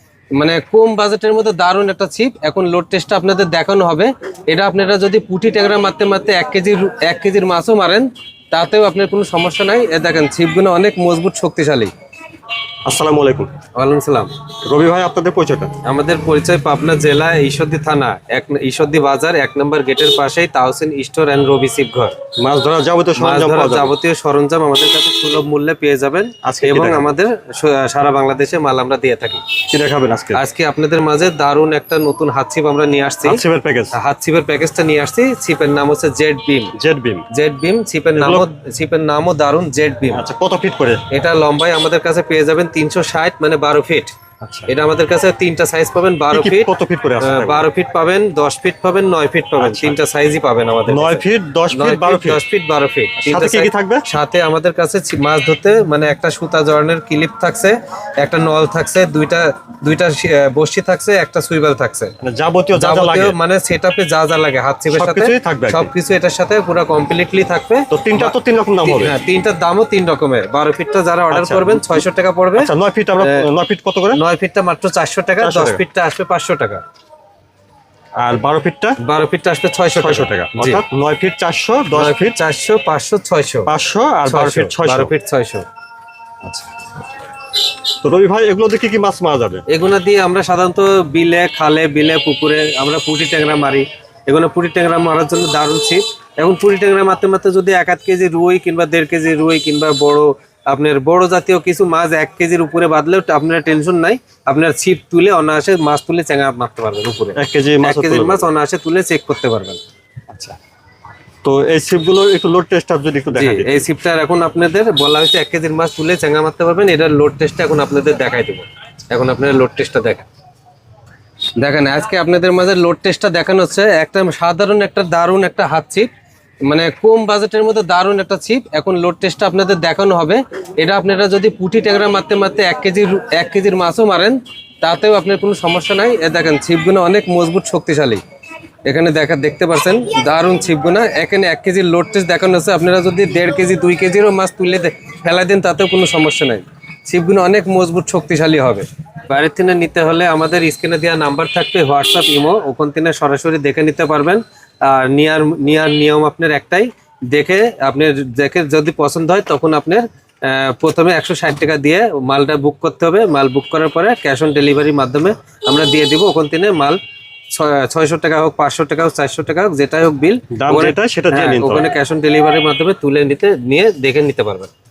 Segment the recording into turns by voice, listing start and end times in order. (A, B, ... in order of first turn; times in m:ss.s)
0:00.4-0:11.9 A
0:12.8-0:13.5 B
0:13.7-0:14.3 A
0:14.6-0:15.7 B
0:15.8-0:22.1 A
0:22.4-0:23.9 B
0:23.2-0:29.4 A
0:26.4-0:27.1 B
0:29.7-0:30.4 B
0:30.3-0:33.4 A
0:33.2-0:33.9 B
0:33.9-0:36.7 A
0:36.8-0:37.2 B
0:37.3-0:40.2 A
0:38.2-0:38.4 B
0:40.1-0:41.0 B
0:41.1-0:44.1 A
0:44.4-0:44.7 B
0:44.7-1:02.1 A
0:46.3-0:47.6 B
0:49.6-0:50.0 B
0:50.9-0:52.4 B
0:53.2-0:54.0 B
1:02.2-1:03.3 B
1:02.8-1:13.5 A
1:04.9-1:05.9 B
1:07.9-1:09.1 B
1:11.3-1:12.0 B
1:12.6-1:14.2 B
1:14.1-1:16.8 A
1:15.4-1:15.8 B
1:18.2-1:19.0 B
1:19.0-1:20.8 A
1:20.0-1:22.4 B
1:21.9-1:23.7 A
1:23.7-1:25.1 B
1:24.2-1:25.6 A
1:27.9-1:29.6 B
1:29.7-1:49.8 A
1:47.4-1:48.5 B
1:50.3-1:50.6 B
1:51.4-1:53.8 B
1:53.3-2:00.2 A
2:01.6-2:06.1 A
2:06.6-2:18.2 A
2:18.8-2:47.0 A
2:47.5-2:54.7 A
2:50.5-2:51.9 B